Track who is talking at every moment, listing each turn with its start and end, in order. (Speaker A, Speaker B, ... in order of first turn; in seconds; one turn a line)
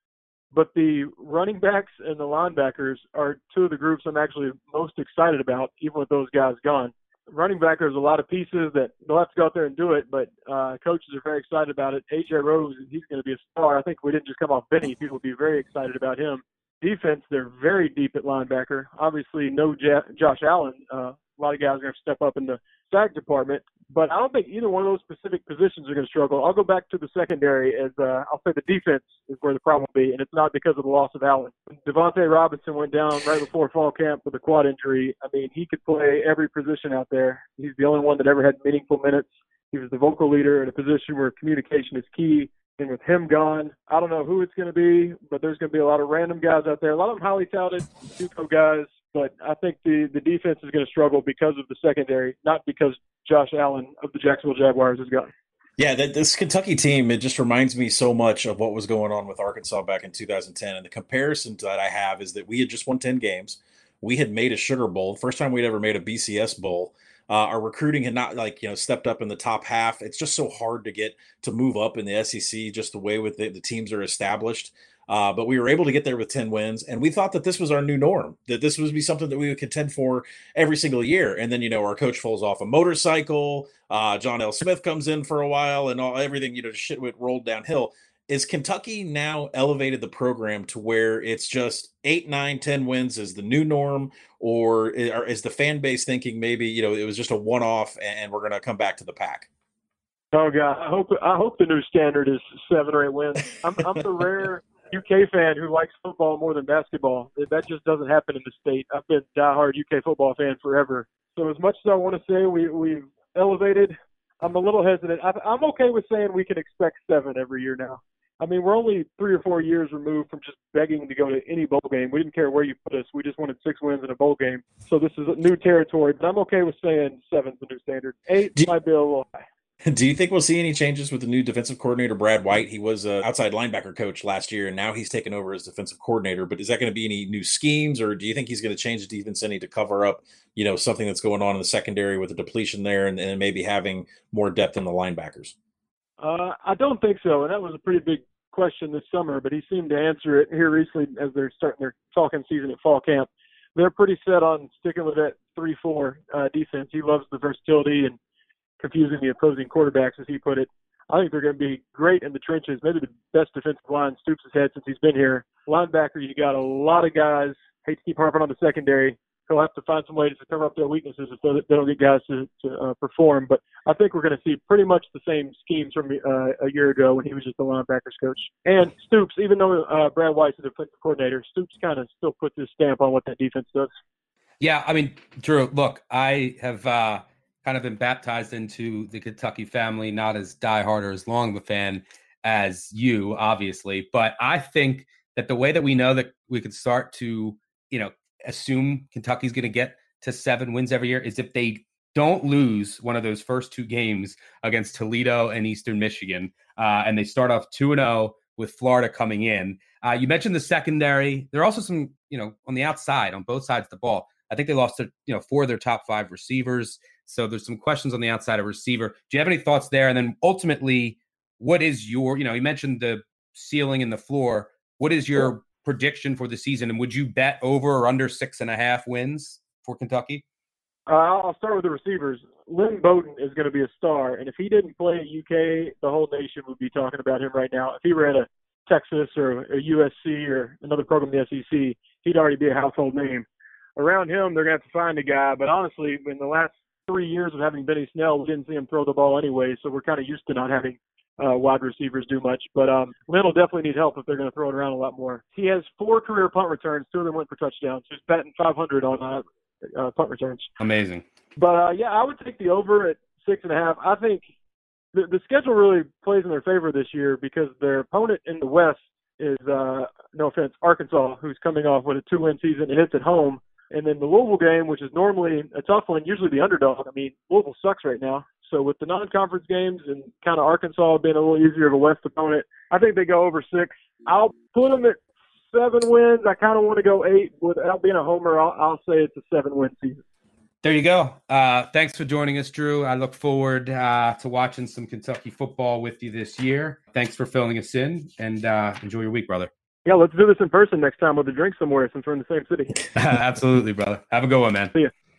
Speaker A: 0.5-55.3
Speaker B: 55.8-99.5
Speaker A: 100.3-129.4
Speaker B: 129.8-145.5
Speaker A: 146.2-158.2
Speaker A: 158.8-183.9
Speaker C: 184.6-230.4
Speaker A: 231.1-260.7
Speaker C: 260.8-261.2
Speaker A: 261.6-264.4
Speaker A: 265.1-285.2
Speaker A: 285.7-290.2
Speaker C: 290.8-299.7
Speaker A: 300.0-303.0
Speaker C: 303.1-304.9